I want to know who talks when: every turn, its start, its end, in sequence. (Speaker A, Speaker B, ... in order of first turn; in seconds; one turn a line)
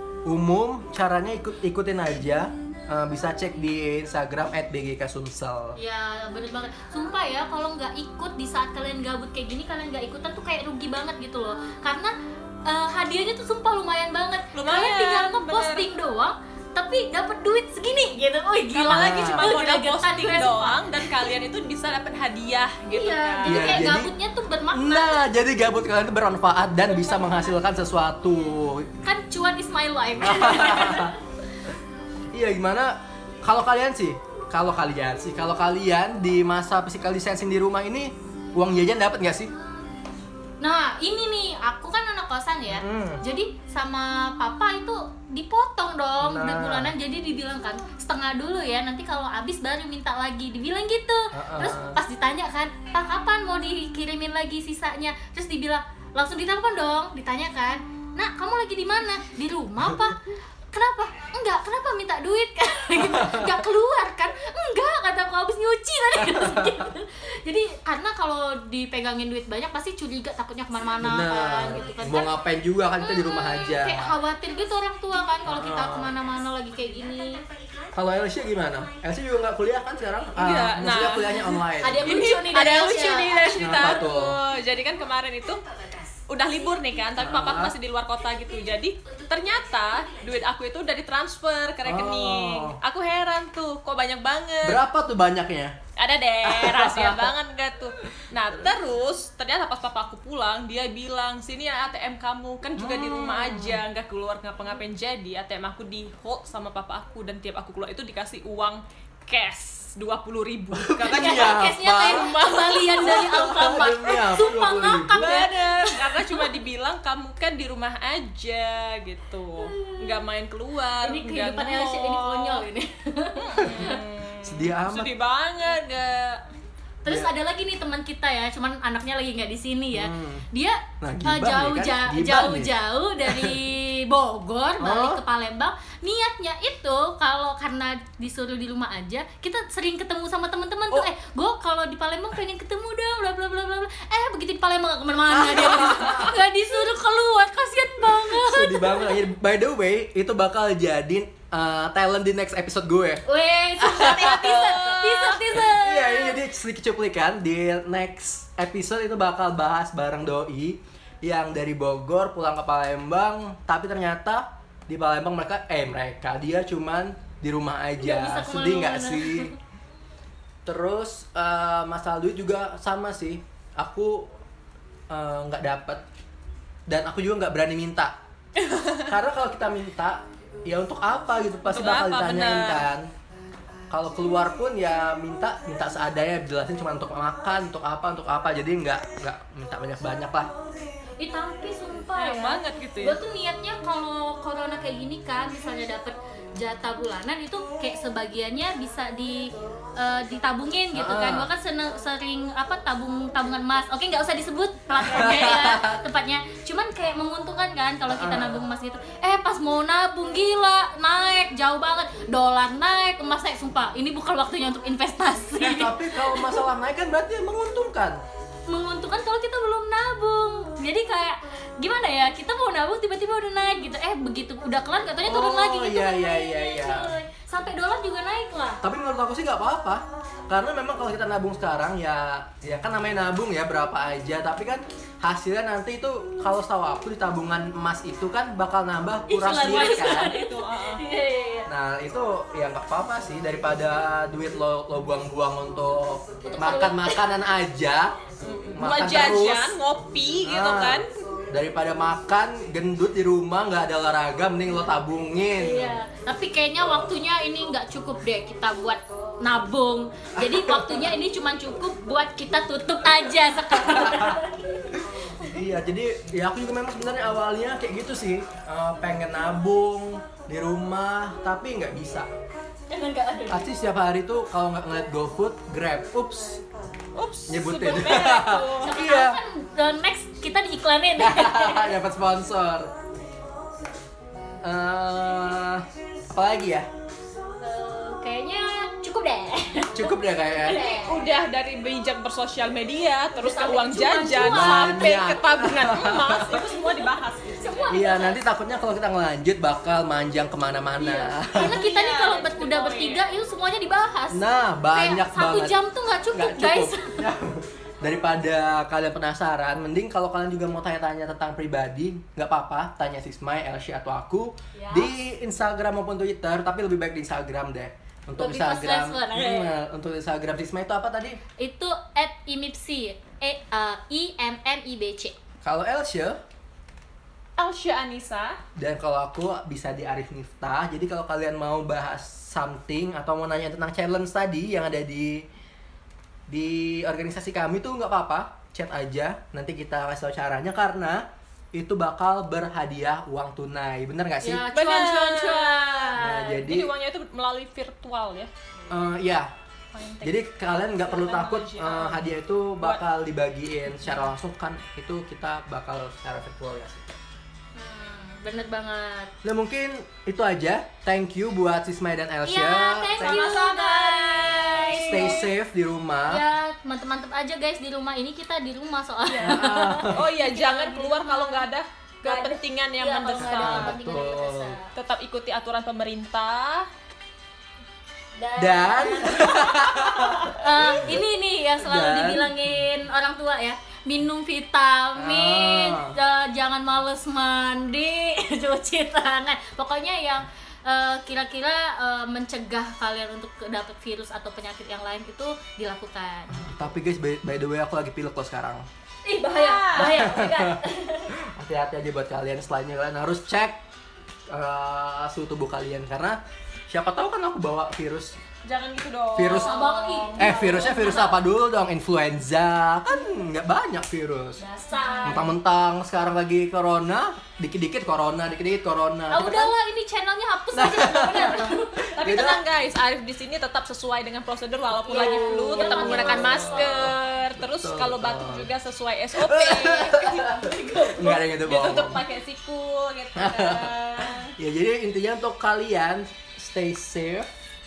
Speaker A: 0.2-5.8
Speaker B: 5.8-12.1
Speaker B: 12.6-21.2
Speaker C: 14.5-15.9
Speaker C: 18.7-23.9
Speaker A: 18.9-19.5
Speaker B: 22.9-25.2
Speaker A: 23.4-24.1
Speaker A: 24.7-28.9
Speaker B: 29.0-31.2
Speaker A: 30.2-31.1
Speaker A: 32.3-39.5
Speaker B: 40.6-60.2
Speaker A: 42.7-43.2
Speaker A: 46.2-46.9
Speaker A: 51.3-52.0
Speaker B: 60.7-72.3
Speaker A: 63.0-63.6
Speaker A: 66.2-66.9
Speaker A: 71.0-74.2
Speaker B: 73.0-77.4
Speaker A: 75.4-76.1
Speaker A: 77.9-82.3
Speaker C: 80.3-85.6
Speaker B: 81.8-83.9
Speaker A: 83.6-84.4
Speaker C: 86.3-94.8
Speaker A: 87.2-87.8
Speaker A: 91.8-92.8
Speaker A: 94.6-95.7
Speaker C: 96.0-113.4
Speaker A: 96.4-97.3
Speaker A: 102.8-103.8
Speaker A: 110.7-112.3
Speaker B: 111.0-116.5
Speaker A: 112.9-115.2
Speaker C: 115.2-122.7
Speaker B: 119.6-120.2
Speaker B: 121.0-124.0
Speaker C: 123.4-126.4
Speaker A: 124.4-125.1
Speaker B: 127.0-149.2
Speaker A: 127.0-127.3
Speaker A: 129.9-130.4
Speaker A: 131.0-133.6
Speaker A: 134.8-135.2
Speaker A: 145.3-146.4
Speaker A: 148.1-153.2
Speaker B: 153.2-156.4
Speaker A: 153.8-154.8
Speaker C: 154.0-155.4
Speaker A: 155.5-169.5
Speaker B: 168.0-169.5
Speaker A: 170.7-174.3
Speaker A: 175.1-176.0
Speaker A: 176.9-178.2
Speaker C: 178.6-179.1
Speaker A: 179.1-183.1
Speaker C: 181.7-182.8
Speaker A: 183.9-190.5
Speaker B: 191.2-216.6
Speaker C: 192.2-193.2
Speaker A: 200.9-201.5
Speaker A: 205.0-206.0
Speaker A: 208.1-208.6
Speaker A: 215.6-218.2
Speaker B: 218.7-228.8
Speaker A: 225.2-227.1
Speaker A: 228.8-240.3
Speaker B: 239.3-241.7
Speaker C: 239.6-241.0
Speaker A: 241.7-248.2
Speaker B: 246.4-247.2
Speaker C: 248.4-251.1
Speaker A: 248.8-249.7
Speaker A: 250.4-256.0
Speaker B: 255.5-265.5
Speaker A: 256.8-257.1
Speaker A: 260.4-261.1
Speaker A: 263.7-264.4
Speaker A: 265.5-272.3
Speaker B: 272.9-273.7
Speaker A: 273.5-276.6
Speaker C: 277.1-279.0
Speaker A: 277.5-279.4
Speaker B: 278.8-282.0
Speaker A: 281.2-282.9
Speaker A: 284.6-286.9
Speaker B: 287.6-291.3
Speaker A: 289.9-290.8
Speaker C: 290.7-297.9
Speaker B: 293.3-295.2
Speaker A: 294.5-296.6
Speaker B: 296.6-297.1
Speaker B: 297.6-298.4
Speaker A: 297.9-301.8
Speaker B: 301.0-304.4
Speaker C: 301.5-303.2
Speaker A: 304.3-305.8
Speaker B: 304.9-307.2
Speaker A: 306.3-321.4
Speaker B: 314.8-315.1
Speaker B: 318.4-319.7
Speaker B: 321.6-325.4
Speaker A: 325.6-326.4
Speaker C: 327.6-328.6
Speaker A: 328.8-335.4
Speaker A: 336.5-344.6
Speaker B: 344.4-346.6
Speaker C: 344.7-348.5
Speaker A: 346.2-346.9
Speaker A: 348.9-349.5
Speaker C: 349.9-350.4
Speaker A: 350.2-357.1
Speaker C: 351.0-352.2
Speaker B: 357.8-359.3
Speaker A: 359.4-363.5
Speaker B: 362.4-365.5
Speaker C: 363.2-365.5
Speaker A: 364.9-366.4
Speaker B: 366.3-371.7
Speaker C: 369.3-373.9
Speaker A: 369.4-370.3
Speaker B: 372.2-374.9
Speaker A: 373.4-374.8
Speaker C: 374.9-376.9
Speaker B: 378.4-396.7
Speaker A: 378.6-381.2
Speaker A: 381.8-382.6
Speaker A: 385.1-386.1
Speaker A: 396.5-398.9
Speaker B: 399.2-401.3
Speaker C: 399.5-400.2
Speaker A: 399.9-403.8
Speaker A: 404.5-408.4
Speaker C: 408.6-411.0
Speaker A: 409.3-409.8
Speaker B: 409.5-411.4
Speaker A: 410.4-414.6
Speaker B: 414.6-415.5
Speaker C: 414.9-415.4
Speaker A: 415.2-419.7
Speaker B: 419.3-422.2
Speaker A: 420.7-422.6
Speaker C: 422.1-430.4
Speaker B: 425.0-427.1
Speaker A: 425.2-428.7
Speaker A: 429.3-432.2
Speaker B: 430.4-431.4
Speaker C: 431.5-434.5
Speaker A: 433.4-437.5